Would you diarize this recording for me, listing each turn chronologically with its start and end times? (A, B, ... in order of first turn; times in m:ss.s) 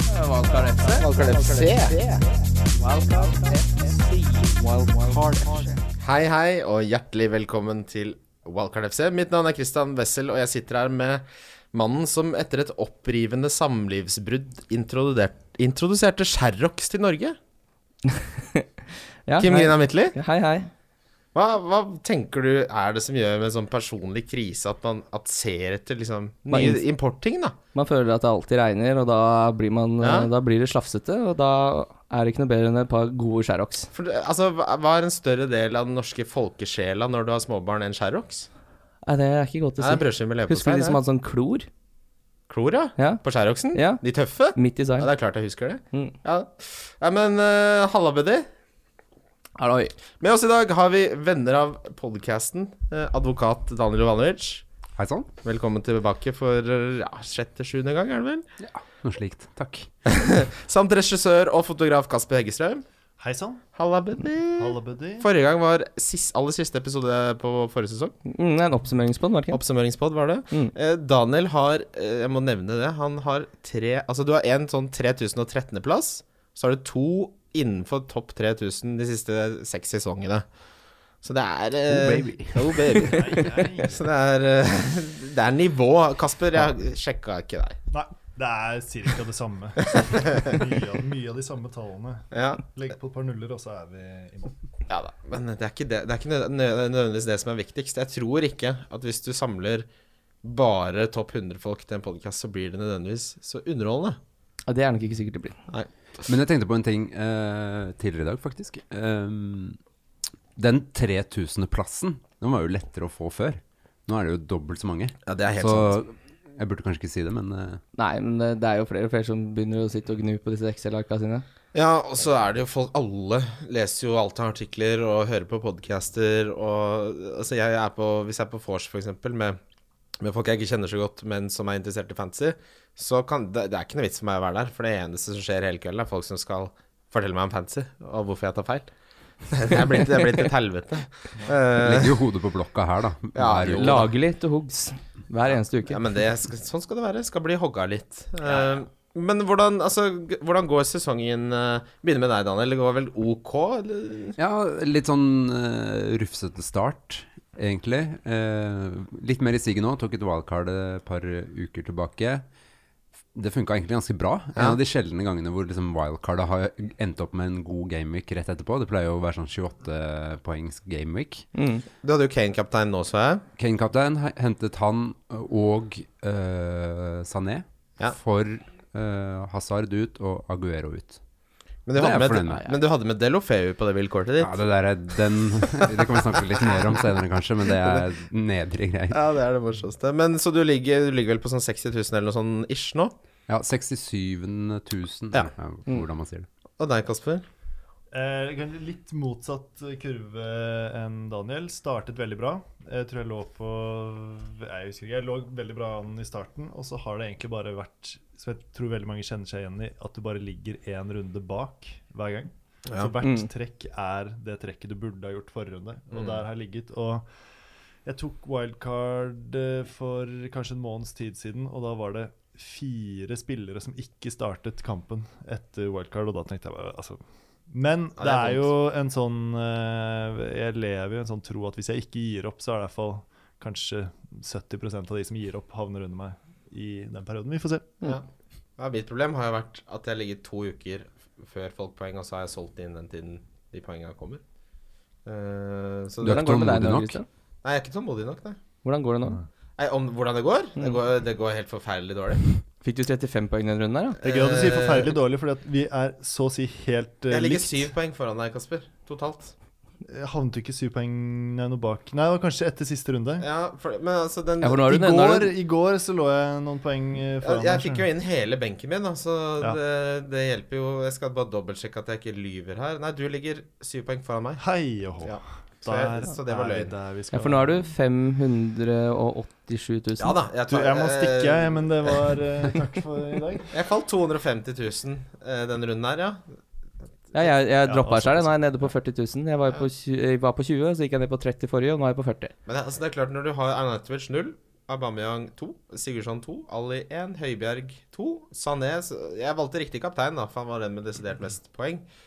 0:00.2-0:01.1 A
0:00.3-0:02.2 B
0:01.0-0:02.1 C
0:02.8-0:04.2 A
0:03.2-0:03.6 B
0:04.6-0:05.8 B
0:06.0-0:17.4 C
0:18.1-0:18.7 A
0:19.3-0:20.7 A
0:19.4-0:20.2 C
0:21.3-0:27.6 C
0:26.5-0:26.8 A
0:27.7-0:33.9 A
0:30.0-0:30.3 C
0:33.9-0:38.5 C
0:39.0-0:41.7 A
0:39.8-0:41.0 C
0:42.5-0:48.5 C
0:43.0-0:43.2 A
0:43.7-0:45.1 A
0:49.6-0:49.9 A
0:50.2-0:54.6 C
0:55.0-0:55.3 D
0:55.4-0:58.4 C
0:58.6-0:59.9 D
1:00.0-1:02.8 C
1:03.2-1:03.6 E
1:03.7-1:08.2 C
1:04.5-1:05.3 E
1:08.2-1:09.6 A
1:09.5-1:20.4 C
1:21.2-1:27.8 C
1:21.9-1:23.2 D
1:23.0-1:24.0 E
1:27.9-1:34.6 E
1:29.8-1:30.6 C
1:32.3-1:32.6 C
1:34.9-1:39.9 C
1:40.4-1:44.2 C
1:44.6-1:45.6 A
1:46.2-1:49.8 D
1:50.6-1:57.8 D
1:55.2-1:56.0 C
1:57.9-2:01.4 A
2:01.7-2:09.6 C
2:10.2-2:18.9 C
2:19.5-2:22.2 C
2:21.5-2:24.1 D
2:23.3-2:24.1 C
2:23.7-2:26.0 A
2:25.5-2:34.4 C
2:34.4-2:42.4 D
2:43.3-2:51.5 D
2:51.5-2:51.8 A
2:52.0-2:53.4 C
2:53.6-3:01.2 D
3:01.8-3:05.2 C
3:01.9-3:02.8 D
3:04.4-3:09.2 D
3:05.8-3:07.0 C
3:09.1-3:13.1 C
3:13.5-3:16.5 D
3:16.8-3:17.4 C
3:18.1-3:37.3 E
3:33.2-3:33.5 A
3:36.1-3:36.4 C
3:38.0-3:57.9 E
3:48.2-3:48.7 C
3:58.8-4:04.4 C
4:05.2-4:06.4 C
4:06.2-4:07.2 D
4:06.2-4:07.2 A
4:07.6-4:08.6 C
4:08.8-4:09.4 A
4:09.8-4:12.4 C
4:12.8-4:14.2 A
4:14.2-4:17.9 E
4:14.2-4:15.1 C
4:17.3-4:19.5 C
4:20.0-4:23.5 E
4:23.4-4:24.8 C
4:24.6-4:25.5 A
4:24.7-4:28.1 E
4:27.4-4:34.6 C
4:34.6-4:37.9 E
4:35.2-4:36.9 C
4:37.3-4:40.4 A
4:40.2-4:42.3 C
4:40.7-4:43.7 E
4:43.7-4:46.4 C
4:47.3-4:52.5 A
4:47.8-4:48.5 E
4:52.6-5:02.0 C